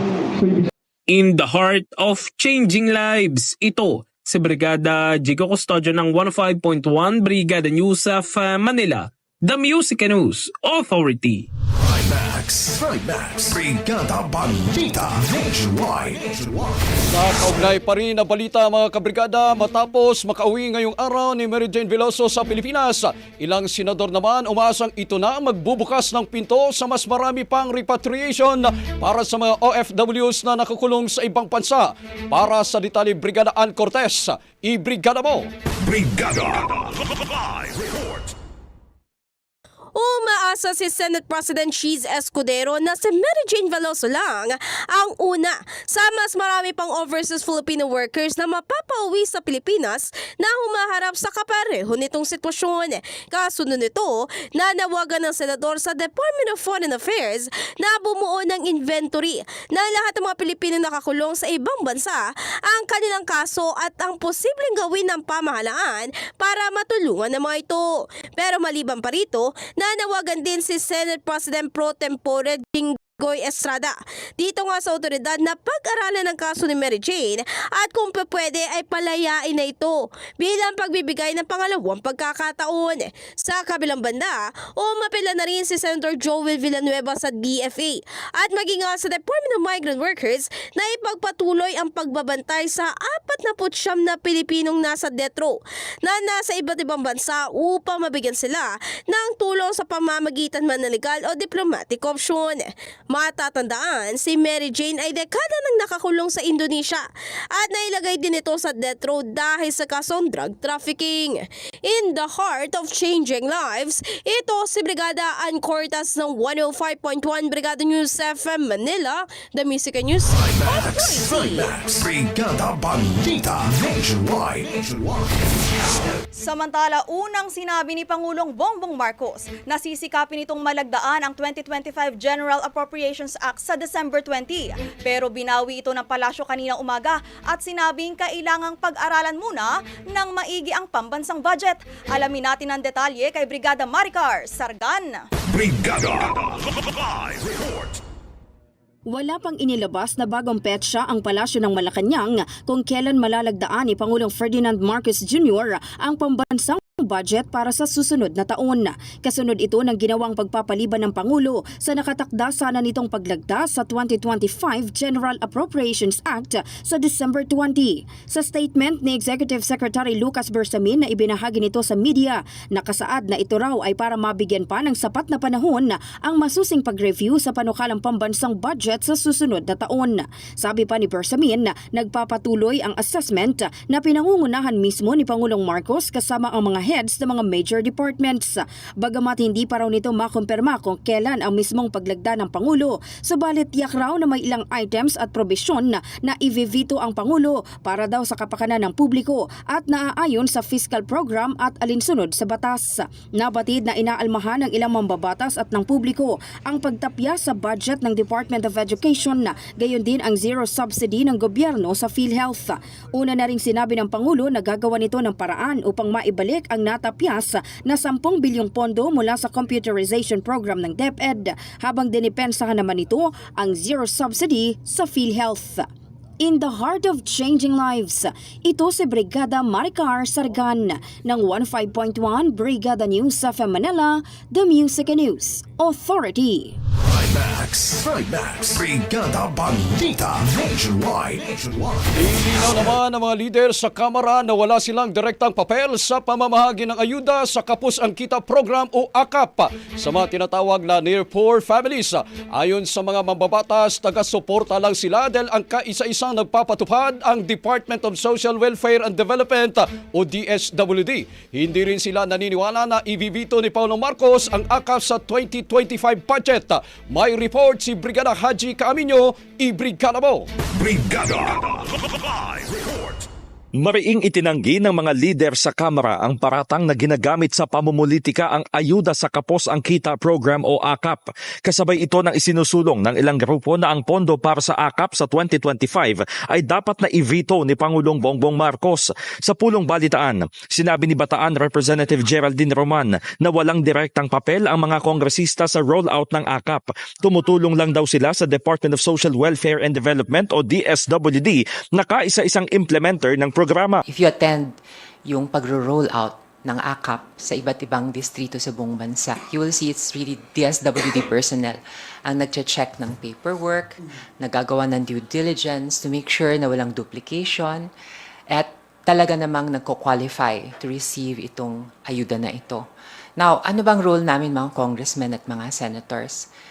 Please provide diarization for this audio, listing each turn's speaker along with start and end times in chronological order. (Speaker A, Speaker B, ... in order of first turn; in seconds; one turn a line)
Speaker A: 1.1-11.5
Speaker B: 11.7-17.0
Speaker C: 17.1-35.5
Speaker B: 35.8-38.3
Speaker D: 39.9-121.6
Speaker B: 120.3-125.5
Speaker E: 126.4-145.2
Speaker B: 145.5-148.0
Speaker F: 149.1-225.9
Speaker F: 226.4-236.8
Speaker B: 237.0-242.5
Speaker C: 242.2-270.5
Speaker B: 270.7-273.2
Speaker G: 273.8-304.0
Speaker H: 304.1-304.7
Speaker H: 305.3-317.9
Speaker H: 318.5-322.9
Speaker H: 323.4-326.5